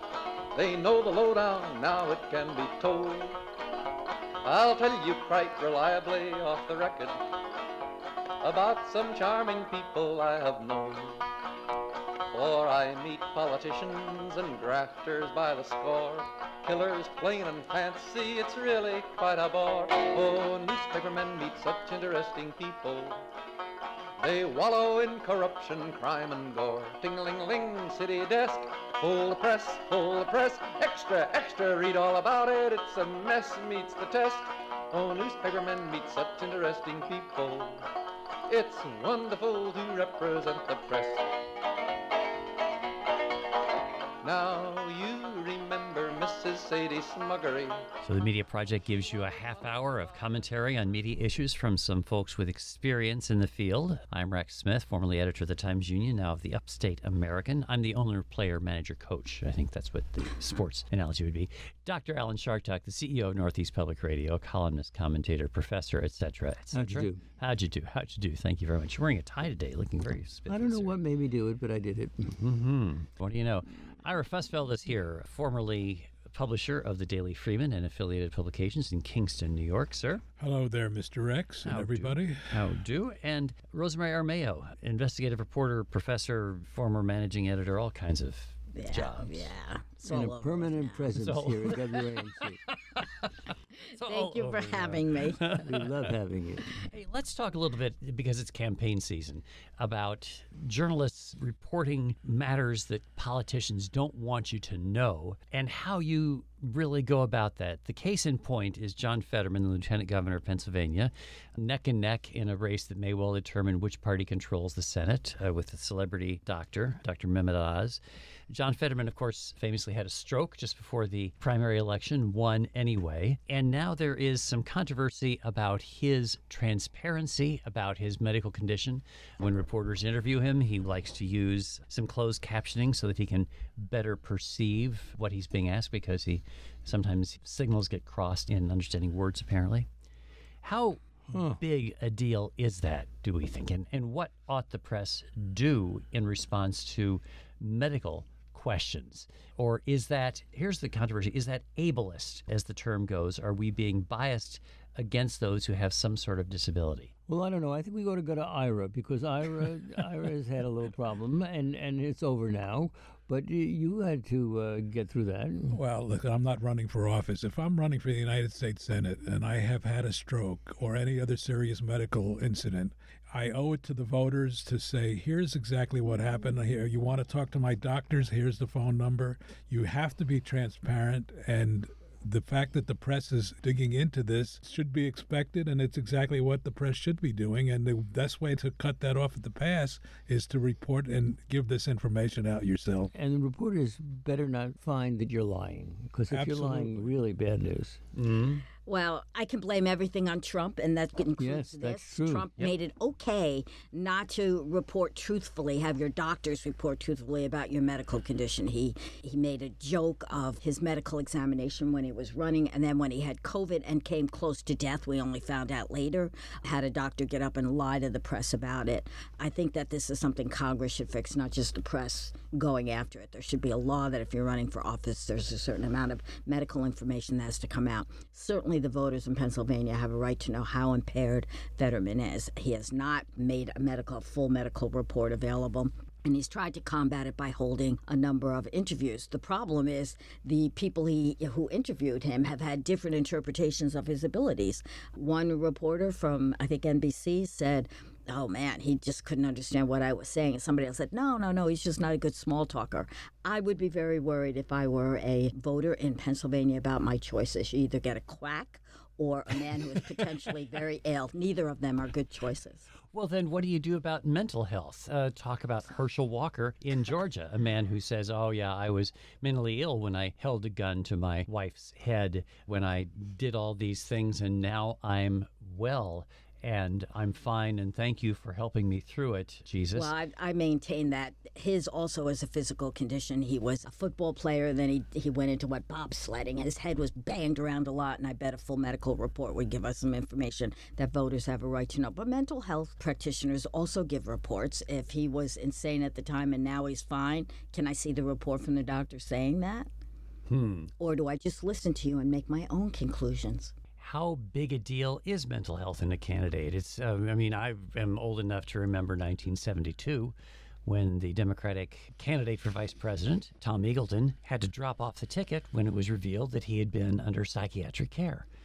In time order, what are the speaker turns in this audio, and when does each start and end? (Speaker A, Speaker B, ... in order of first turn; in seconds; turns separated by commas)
Speaker A: 0.5-3.4, Speaker A: 4.4-7.3, Speaker A: 8.4-11.3, Speaker A: 12.3-23.2, Speaker A: 24.2-37.9, Speaker A: 38.5-41.3, Speaker A: 44.2-47.9, Speaker B: 48.0-71.0, Speaker C: 66.7-67.2, Speaker C: 70.5-72.3, Speaker B: 72.3-80.2, Speaker D: 80.4-82.7, Speaker B: 81.6-89.5, Speaker E: 88.7-91.1, Speaker C: 90.0-92.6, Speaker B: 91.1-96.1, Speaker E: 93.9-95.5, Speaker C: 95.5-96.8, Speaker B: 96.8-139.9, Speaker B: 140.6-157.1, Speaker C: 141.3-141.6, Speaker C: 157.3-165.8, Speaker D: 165.7-193.1, Speaker C: 193.1-198.0, Speaker D: 196.3-197.1, Speaker B: 198.2-198.6, Speaker E: 198.8-262.9, Speaker C: 201.4-202.5, Speaker B: 263.1-280.1, Speaker E: 279.9-299.9, Speaker B: 300.5-300.9, Speaker E: 301.0-303.7, Speaker B: 304.0-318.4